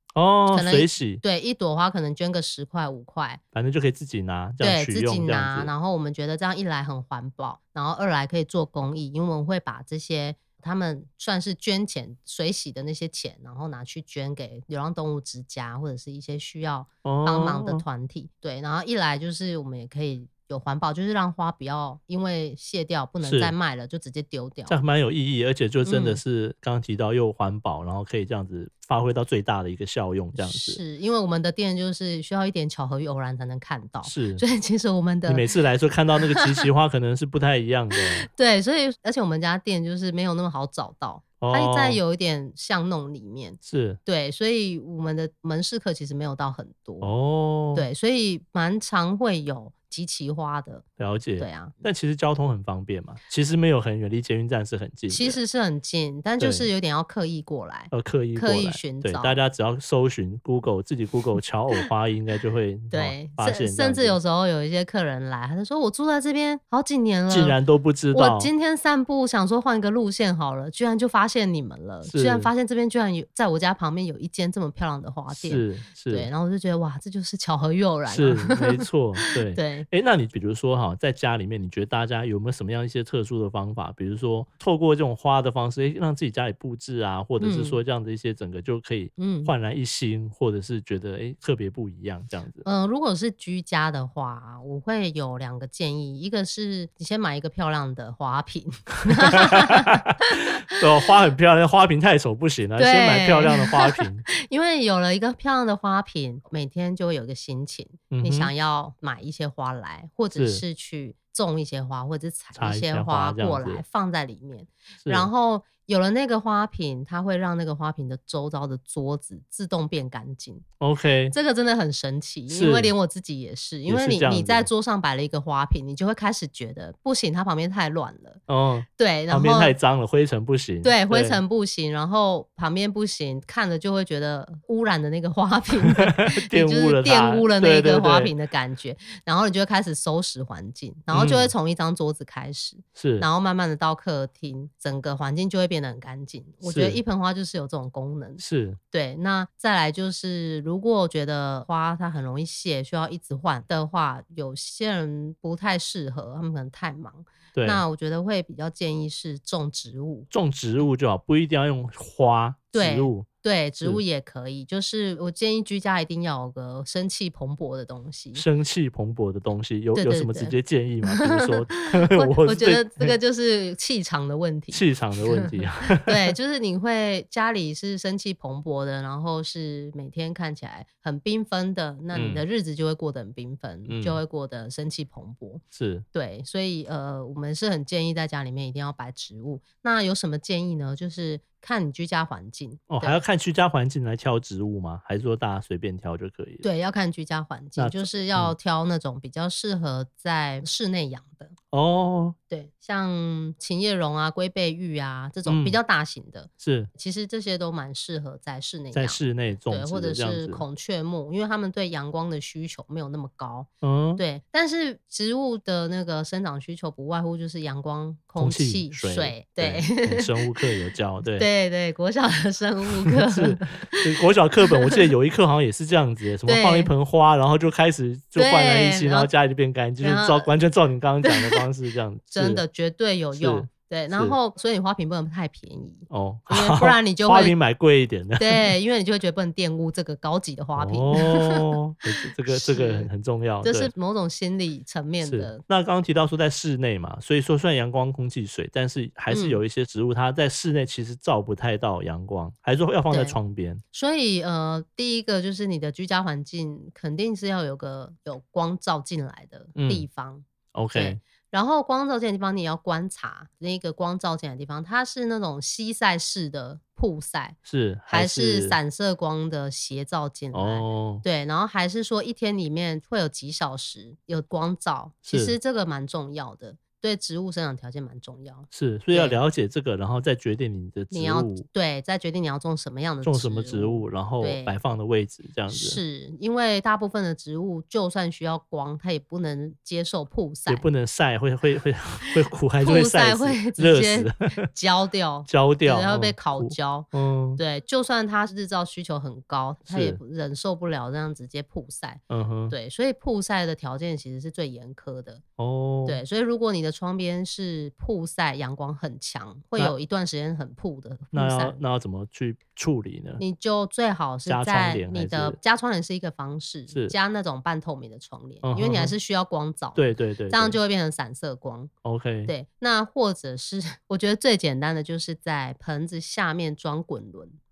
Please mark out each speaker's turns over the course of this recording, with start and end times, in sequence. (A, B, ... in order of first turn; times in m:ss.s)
0:00.2-0:01.2 A
0:00.5-0:03.4 B
0:03.5-0:05.7 A
0:04.6-0:24.8 B
0:17.0-0:17.8 A
0:23.2-0:23.5 A
0:24.7-0:30.8 A
0:25.8-0:26.2 B
0:30.4-0:35.5 B
0:34.0-0:34.4 A
0:35.3-0:38.3 A
0:36.3-0:36.6 B
0:38.3-0:47.1 B
0:41.4-0:42.0 A
0:43.6-0:44.0 A
0:47.0-0:47.9 A
0:47.7-0:50.8 B
0:51.0-0:55.4 A
0:51.4-0:51.8 B
0:55.1-0:59.4 B
0:56.4-0:56.7 A
0:57.9-1:04.2 A
1:02.9-1:07.6 B
1:07.3-1:08.5 A
1:08.1-1:19.9 B
1:12.0-1:12.5 A
1:15.3-1:16.3 A
1:18.1-1:32.6 A
1:27.4-1:27.8 B
1:29.2-1:29.5 B
1:32.6-1:40.8 B
1:39.1-1:40.1 A
1:40.6-1:44.3 A
1:42.8-2:00.6 B
1:48.1-1:48.5 A
1:50.3-1:50.6 A
1:52.6-1:53.8 A
1:55.0-1:55.3 A
2:00.8-2:01.4 A
2:01.3-2:08.4 B
2:02.5-2:02.9 A
2:03.9-2:04.7 A
2:08.5-2:11.4 A
2:09.0-2:09.8 B
2:10.8-2:40.3 B
2:15.9-2:18.3 A
2:21.1-2:21.5 A
2:23.0-2:23.3 A
2:26.6-2:27.0 A
2:28.4-2:28.8 A
2:37.5-2:37.8 A
2:40.3-2:43.3 A
2:42.7-2:48.4 B
2:48.4-2:53.2 A
2:50.0-2:50.6 B
2:51.1-3:05.6 B
2:54.7-2:56.3 A
3:02.1-3:02.4 A
3:03.9-3:04.2 A
3:05.7-3:06.0 A
3:06.1-3:13.2 B
3:12.9-3:16.6 A
3:16.6-3:21.5 B
3:17.8-3:18.6 A
3:21.7-3:22.4 A
3:22.5-3:40.6 B
3:25.5-3:25.8 A
3:26.6-3:26.9 A
3:28.9-3:30.6 A
3:33.8-3:34.2 A
3:38.4-3:41.5 A
3:41.4-3:44.0 B
3:43.2-3:52.6 A
3:44.7-3:45.1 B
3:46.5-3:46.9 B
3:48.4-3:49.3 B
3:50.0-3:50.5 B
3:51.2-3:51.6 B
3:52.3-3:57.6 B
3:53.3-3:54.4 A
3:56.1-3:58.7 A
3:58.4-4:01.7 B
4:00.8-4:03.9 A
4:02.5-4:03.1 B
4:03.6-4:05.6 B
4:05.2-4:13.8 A
4:09.3-4:09.6 B
4:13.1-4:13.4 B
4:13.9-4:27.6 B
4:19.8-4:20.1 A
4:20.7-4:21.2 A
4:27.7-4:28.8 A
4:28.1-4:39.4 B
4:30.5-4:31.2 A
4:35.3-4:35.6 A
4:38.7-4:41.7 A
4:41.1-4:44.7 B
4:43.2-4:46.0 A
4:45.7-4:50.9 B
4:50.7-4:54.7 A
4:52.3-5:05.4 B
4:55.5-4:57.6 A
4:59.9-5:00.2 A
5:02.3-5:02.8 A
5:05.6-5:06.2 A
5:06.1-5:11.8 B
5:11.3-5:13.4 A
5:13.4-5:21.9 B
5:14.5-5:15.6 A
5:16.9-5:17.2 A
5:18.6-5:19.2 A
5:20.0-5:20.8 A
5:22.0-5:22.5 A
5:22.5-5:27.6 B